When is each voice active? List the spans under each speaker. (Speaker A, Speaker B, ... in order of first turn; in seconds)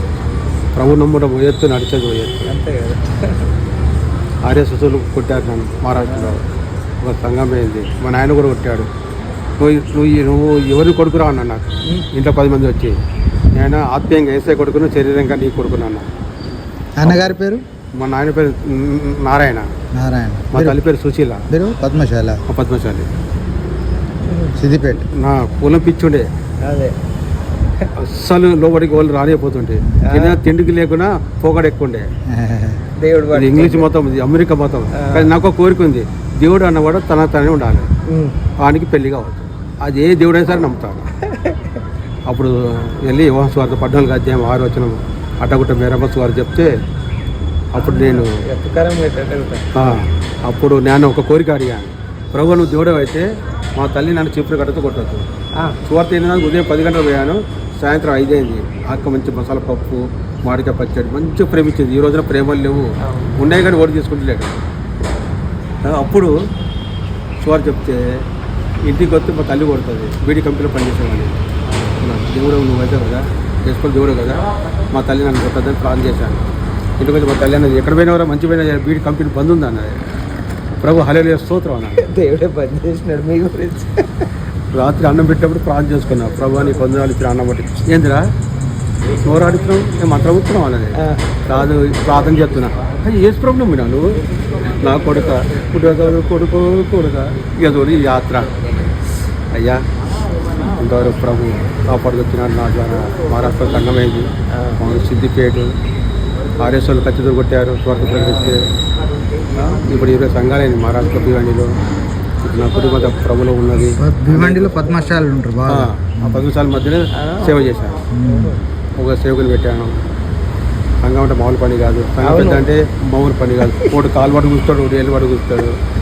Speaker A: 0.8-2.5, 4.4-6.4, 7.0-8.9, 9.6-13.0, 13.6-16.1, 17.9-19.7, 20.5-21.5, 22.5-23.1, 25.1-26.3, 27.9-32.1, 33.3-37.9, 38.6-41.0, 42.3-46.7, 47.7-48.4, 49.7-55.2, 55.8-64.6, 65.8-66.3, 67.4-68.2, 68.8-71.4, 71.9-76.4, 77.0-80.0, 80.8-82.0, 84.7-88.3, 89.2-94.1, 94.8-98.5, 99.5-99.8, 100.6-105.7, 106.6-108.7, 109.6-111.7, 112.4-114.8, 115.7-118.0, 119.0-119.9, 121.0-125.8
Speaker B: 2.5-3.5, 6.0-6.4, 24.2-24.6, 26.6-26.9, 30.0-30.4, 33.0-33.9, 34.9-35.3, 38.0-38.4, 41.2-41.8, 47.8-50.0, 63.0-63.5, 82.0-84.3, 91.0-91.3, 104.5-104.8, 108.2-108.6, 117.1-117.6, 118.2-118.6, 122.2-122.7
Speaker C: 16.9-17.6, 19.9-20.8, 21.5-22.4, 24.6-25.1, 32.3-32.8, 113.8-116.4, 118.1-118.6